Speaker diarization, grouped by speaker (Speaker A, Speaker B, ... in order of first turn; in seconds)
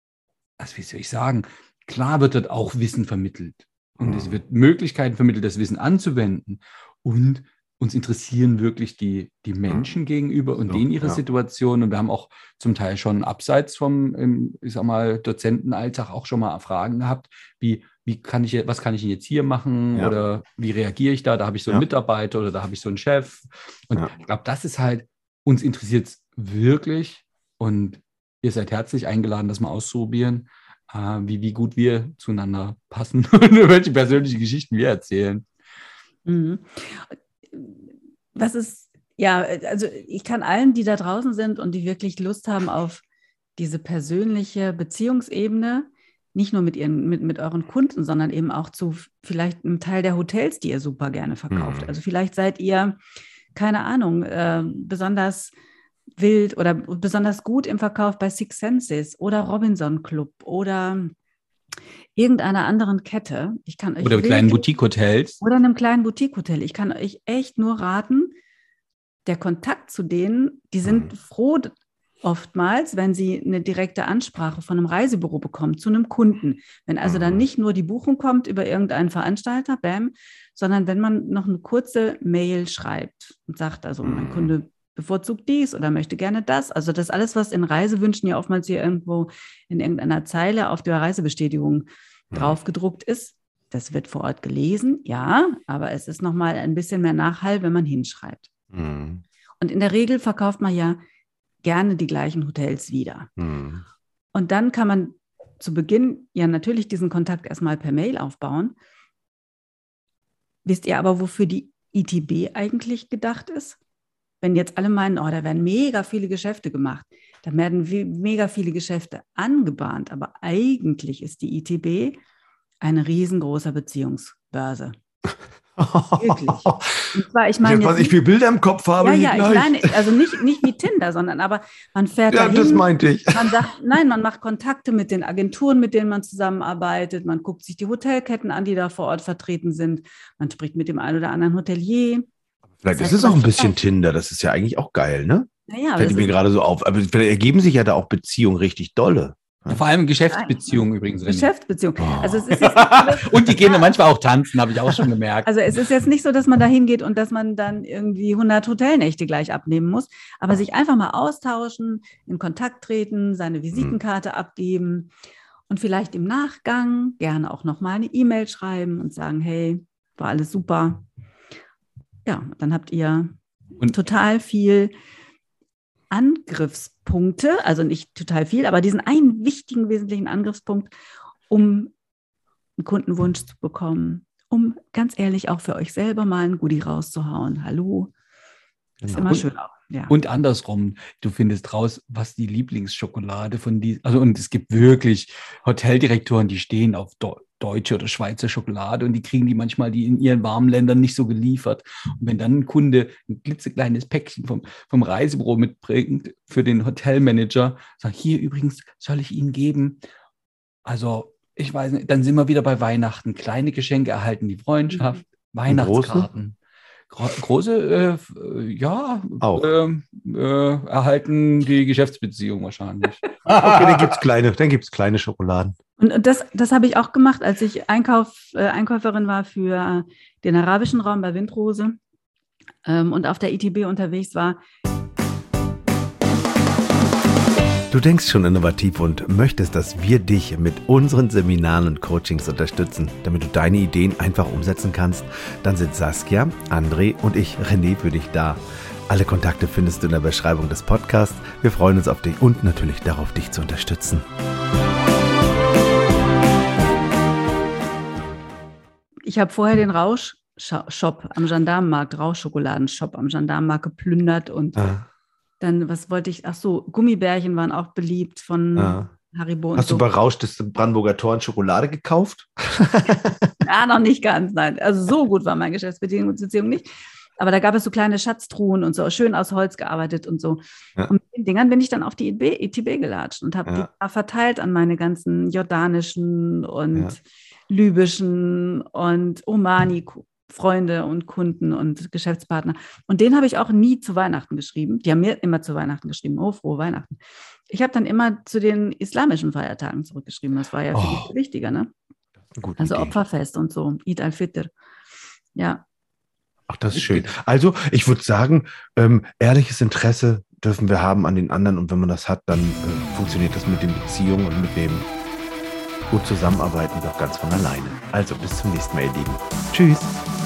Speaker A: 0.6-35.5, 64.0-65.4, 149.7-151.5, 152.5-155.5, 190.1-210.0, 210.8-216.6, 217.1-224.1, 306.9-307.3
Speaker B: 4.0-4.4, 9.7-9.9, 10.7-11.2, 51.5-51.9, 70.8-71.1, 77.0-77.4, 84.0-84.5, 92.3-92.6, 98.7-99.2, 103.4-103.8, 125.8-127.1, 127.6-130.4, 132.3-133.7, 142.8-149.8, 152.0-152.4, 189.0-189.4, 215.7-216.3, 219.4-219.7, 223.5-225.8, 237.9-254.2, 264.8-265.0, 268.8-269.1, 269.8-273.6, 300.9-301.3, 302.5-303.1, 306.7-315.1, 316.1-320.1
Speaker C: 36.3-43.0, 43.6-53.0, 53.5-55.5, 56.2-61.1, 62.1-64.7, 65.4-68.3, 69.2-98.5, 99.6-101.0, 101.6-103.3, 104.3-108.8, 110.6-113.8, 114.4-122.2, 122.8-124.9, 126.2-128.2, 129.0-142.3, 142.9-143.8, 145.7-146.4, 150.3-153.9, 155.5-165.1, 165.7-171.1, 172.2-173.3, 173.8-174.9, 176.1-180.9, 181.5-181.9, 182.8-188.1, 189.1-190.1, 226.0-232.0, 232.8-234.6, 259.3-264.8, 265.6-270.1, 273.6-301.9, 302.8-304.7, 305.6-305.8